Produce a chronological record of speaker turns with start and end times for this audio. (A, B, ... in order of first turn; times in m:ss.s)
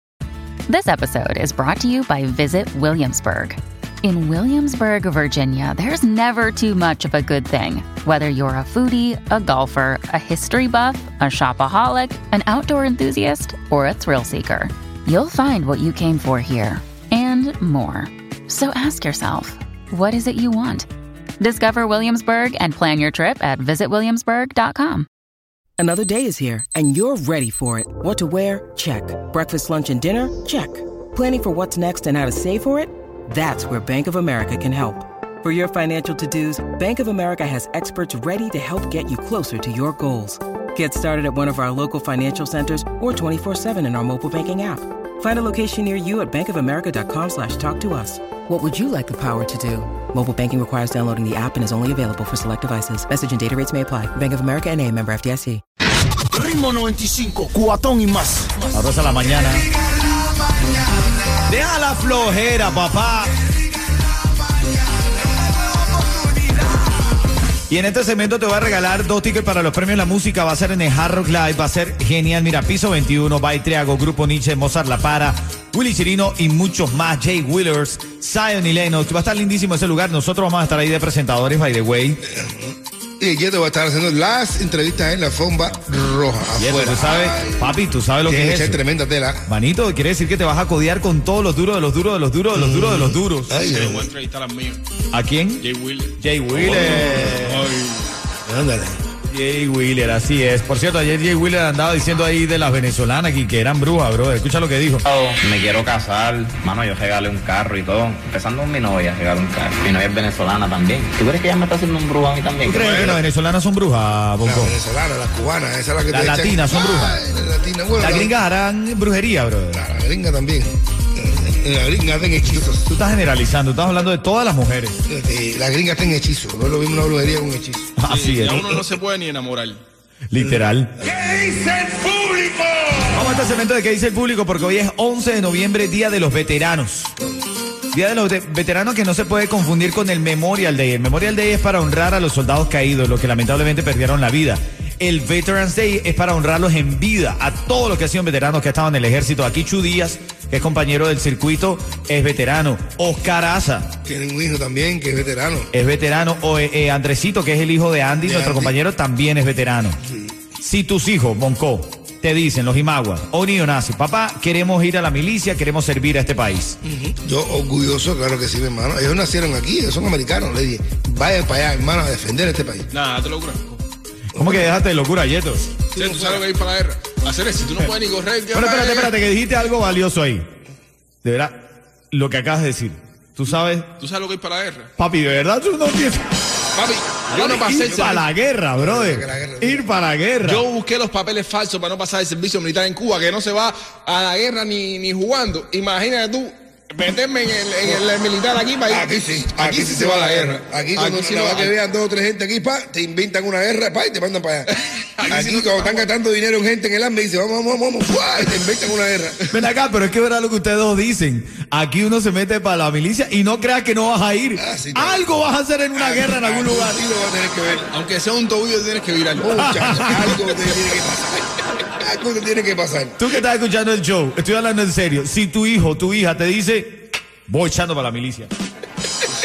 0:00.7-0:20.9 A
0:21.4-0:25.1 A
0:25.8-0:55.6 B
0:56.3-0:58.7 C
0:58.7-0:59.7 D
1:01.5-1:03.3 D
1:06.1-1:06.6 C
1:07.7-1:22.2 D
1:22.2-1:27.7 E
1:26.6-1:28.8 D
1:28.3-1:29.5 E
1:29.5-1:33.5 D
1:32.5-1:34.1 E
1:33.5-1:34.8 F
1:35.1-1:35.7 D
1:35.6-1:38.2 F
1:36.2-1:37.6 D
1:36.7-1:37.4 E
1:38.4-1:39.0 E
1:39.3-1:45.0 D
1:45.1-1:53.1 G
1:52.6-1:54.7 D
1:52.9-1:53.2 E
1:54.4-1:58.3 E
1:56.1-1:57.2 D
1:58.0-1:59.8 D
1:59.7-2:02.9 E
2:02.4-2:05.0 D
2:05.1-2:07.9 E
2:08.0-2:08.8 D
2:08.1-2:09.8 F
2:10.3-2:10.9 D
2:11.2-2:12.9 C
2:13.1-2:17.2 D
2:17.9-2:33.9 D
2:34.0-2:35.7 E
2:35.7-2:40.0 D
2:38.2-2:38.7 E
2:40.6-2:46.8 D
2:46.8-2:52.9 E
2:52.9-2:53.8 F
2:54.3-2:54.7 E
2:54.3-2:55.8 D
2:55.9-2:59.1 F
2:55.9-2:56.4 E
2:58.5-3:00.5 D
3:01.2-3:01.6 D
3:02.1-3:03.9 D
3:04.0-3:04.9 F
3:05.0-3:06.3 D
3:06.8-3:08.2 F
3:07.3-3:08.2 E
3:07.4-3:10.6 D
3:08.8-3:09.9 E
3:10.4-3:21.7 F
3:18.9-3:24.7 E
3:25.2-3:26.1 F
3:25.2-3:29.4 E
3:29.5-3:37.0 D
3:34.6-3:35.3 E
3:35.9-3:37.9 E
3:37.9-3:39.6 F
3:39.4-3:43.2 E
3:39.6-3:40.3 D
3:43.2-3:48.5 D